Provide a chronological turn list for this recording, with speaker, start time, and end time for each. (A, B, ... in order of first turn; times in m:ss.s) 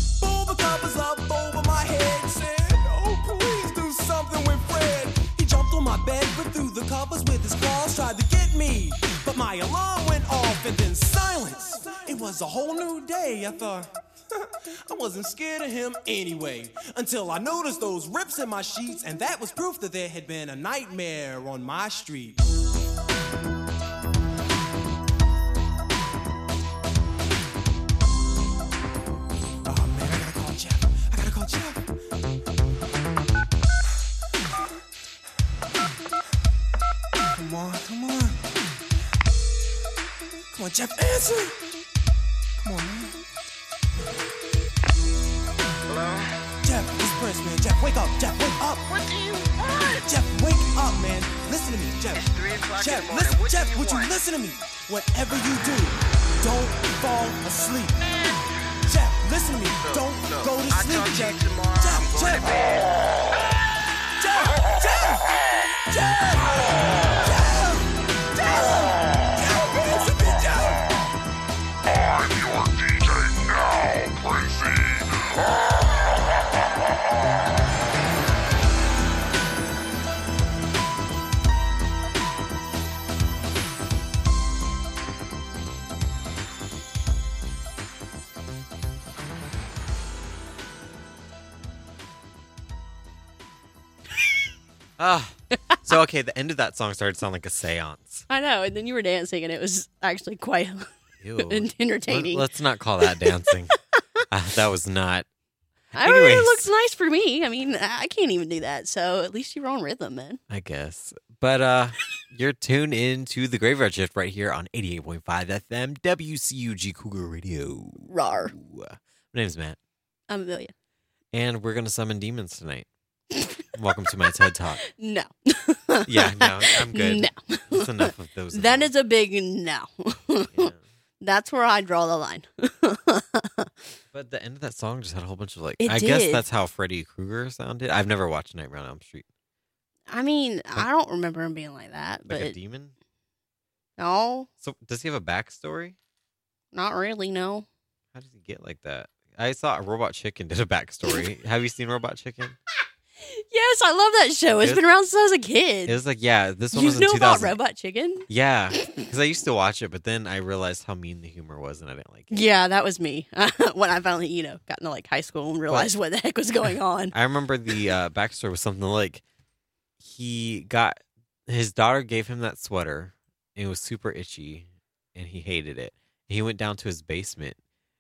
0:00.2-0:22.4 A
0:29.7-0:31.8 A
0:37.3-0:38.4 A
0:40.5-0:41.6 A
0:42.6-0:43.2 A
0:45.9-0:46.4 B
0:46.6-0:48.9 A
0:48.9-0:50.1 B
0:49.9-0:58.0 A
0:52.1-0:54.1 B
0:58.0-0:58.4 B
0:58.9-1:02.8 A
0:59.8-1:02.9 B
1:04.2-1:05.3 A
1:05.9-1:10.9 A
1:11.8-1:15.7 C
1:35.0-1:38.3 D
1:38.3-1:40.9 E
1:41.2-1:45.3 D
1:41.4-1:42.5 E
1:43.0-1:43.4 E
1:46.0-1:50.4 E
1:46.0-1:46.7 D
1:50.5-1:59.8 D
1:58.0-1:58.6 E
2:00.3-2:00.7 E
2:01.3-2:02.9 D
2:03.3-2:03.6 E
2:03.7-2:04.8 D
2:04.2-2:13.7 E
2:06.1-2:08.9 D
2:10.5-2:10.8 D
2:14.1-2:19.3 D
2:15.8-2:16.4 E
2:20.1-2:22.6 E
2:22.3-2:23.0 D
2:24.0-2:24.5 E
2:24.6-2:26.0 D
2:26.7-2:27.7 E
2:28.1-2:32.6 D
2:33.2-2:36.0 E
2:34.6-2:34.8 D
2:35.9-2:37.6 D
2:36.7-2:38.3 E
2:38.3-2:42.5 D
2:38.8-2:39.1 E
2:42.3-2:47.2 E
2:47.1-2:49.2 D
2:50.0-2:57.6 D